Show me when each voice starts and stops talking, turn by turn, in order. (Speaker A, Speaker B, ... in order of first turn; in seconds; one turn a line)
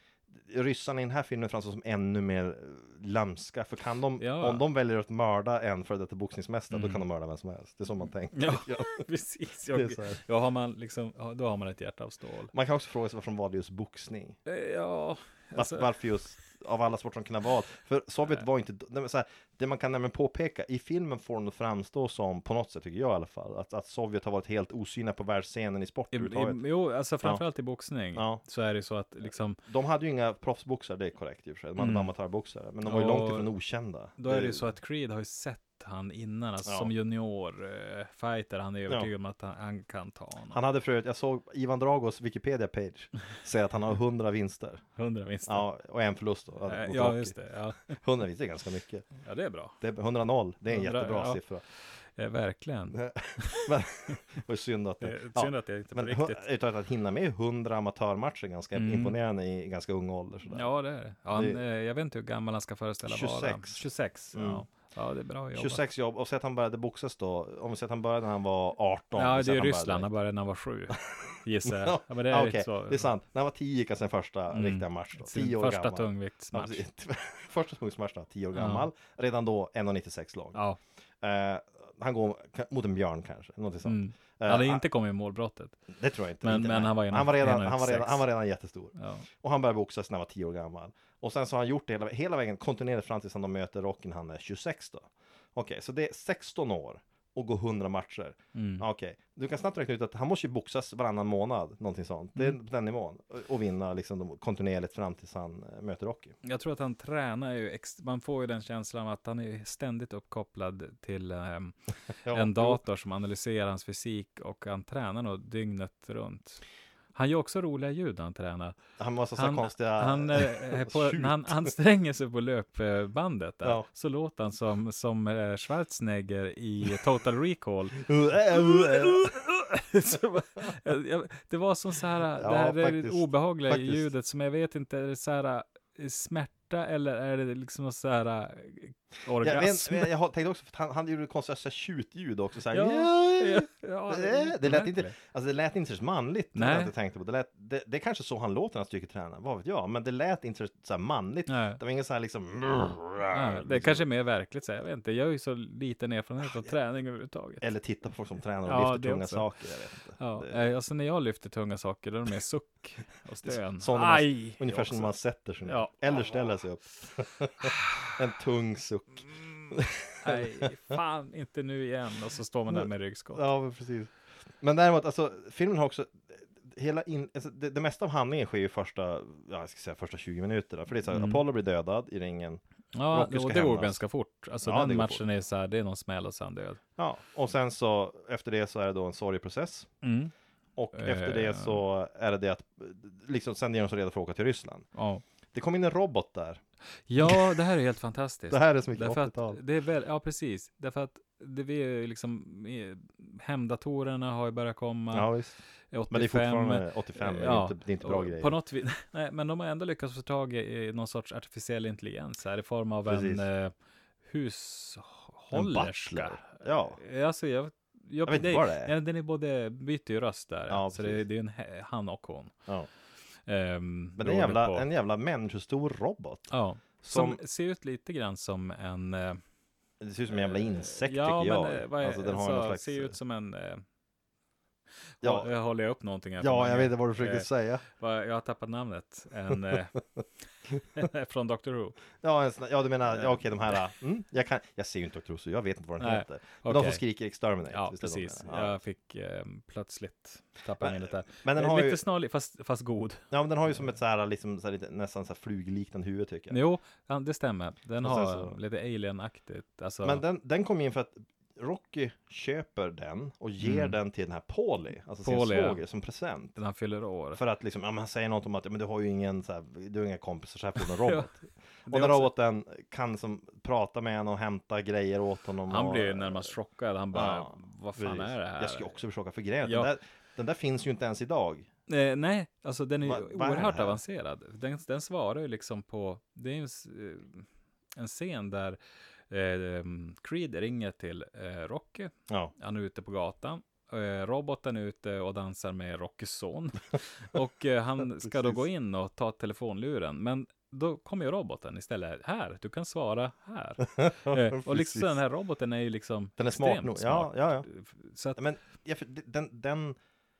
Speaker A: 0.3-9.0
Speaker B: 4.2-4.6
Speaker B: 6.7-7.0
Speaker B: 8.3-12.5
Speaker A: 9.7-10.2
Speaker A: 12.5-14.4
Speaker B: 14.5-15.9
Speaker A: 15.6-26.6
Speaker B: 26.1-29.6
Speaker A: 28.1-28.4
Speaker A: 29.6-34.6
Speaker B: 31.8-32.1
Speaker B: 32.8-33.5
Speaker B: 34.2-40.6
Speaker A: 36.7-36.9
Speaker A: 40.5-44.8
Speaker B: 45.0-45.7
Speaker A: 45.5-49.1
Speaker B: 46.7-48.0
Speaker B: 49.2-49.8
Speaker A: 49.8-51.6
Speaker B: 50.7-51.4
Speaker B: 51.9-54.2
Speaker A: 52.9-60.7
Speaker B: 55.0-56.4
Speaker B: 58.7-59.1
Speaker B: 60.5-65.8
Speaker A: 61.3-61.6
Speaker A: 63.0-64.7
Speaker A: 65.5-70.1
Speaker B: 69.2-73.1
Speaker A: 71.2-80.6
Speaker B: 74.5-76.8
Speaker B: 78.5-78.9
Speaker B: 80.5-80.8
Speaker A: 81.2-84.8
Speaker B: 83.8-85.8
Speaker A: 85.9-106.3
Speaker B: 86.4-88.2
Speaker B: 89.0-89.2
Speaker B: 98.5-98.9
Speaker B: 106.4-116.6
Speaker A: 112.2-112.8
Speaker B: 117.2-118.8
Speaker A: 119.0-121.7
Speaker B: 119.4-140.1
Speaker A: 128.0-129.3
Speaker A: 132.4-134.1
Speaker A: 139.4-154.0
Speaker B: 142.7-145.1
Speaker B: 146.6-146.9
Speaker B: 151.5-151.8
Speaker B: 153.3-157.7
Speaker A: 157.6-160.6
Speaker B: 158.7-159.5
Speaker B: 160.2-166.3
Speaker A: 163.4-171.0
Speaker B: 170.2-173.5
Speaker A: 172.7-182.6
Speaker B: 181.1-181.4
Speaker B: 182.9-186.8
Speaker A: 183.1-184.0
Speaker A: 184.6-185.2
Speaker A: 187.0-189.9
Speaker B: 190.0-190.3
Speaker A: 190.8-194.9
Speaker B: 190.9-191.8
Speaker B: 194.9-195.2
Speaker A: 195.5-196.6
Speaker B: 197.1-205.3
Speaker A: 197.2-197.6
Speaker A: 198.5-199.6
Speaker A: 205.1-205.6
Speaker B: 205.9-213.7
Speaker A: 206.1-208.5
Speaker A: 213.1-213.4
Speaker B: 214.2-222.6
Speaker A: 215.5-217.0
Speaker A: 218.3-218.9
Speaker A: 220.7-221.2
Speaker B: 223.5-224.9
Speaker A: 224.2-227.4
Speaker B: 226.5-229.4
Speaker A: 230.0-233.2
Speaker B: 230.3-233.8
Speaker B: 235.2-240.0
Speaker A: 235.2-235.5
Speaker A: 236.4-237.8
Speaker B: 240.9-242.0
Speaker A: 242.2-248.8
Speaker B: 246.0-247.0
Speaker B: 247.7-253.3
Speaker A: 250.8-252.0
Speaker A: 253.3-256.6
Speaker B: 256.5-260.2
Speaker A: 258.0-258.6
Speaker A: 260.0-266.6
Speaker B: 263.6-264.0
Speaker B: 265.2-265.8
Speaker B: 266.6-267.4
Speaker A: 267.4-276.5
Speaker B: 270.8-271.3
Speaker B: 271.9-272.3
Speaker B: 275.7-278.9
Speaker A: 277.1-281.7
Speaker B: 279.6-279.9
Speaker B: 281.9-288.8
Speaker A: 283.0-284.0
Speaker B: 289.3-308.4
Speaker A: 298.2-298.6
Speaker A: 303.9-305.1
Speaker A: 306.4-307.7
Speaker A: 308.4-310.0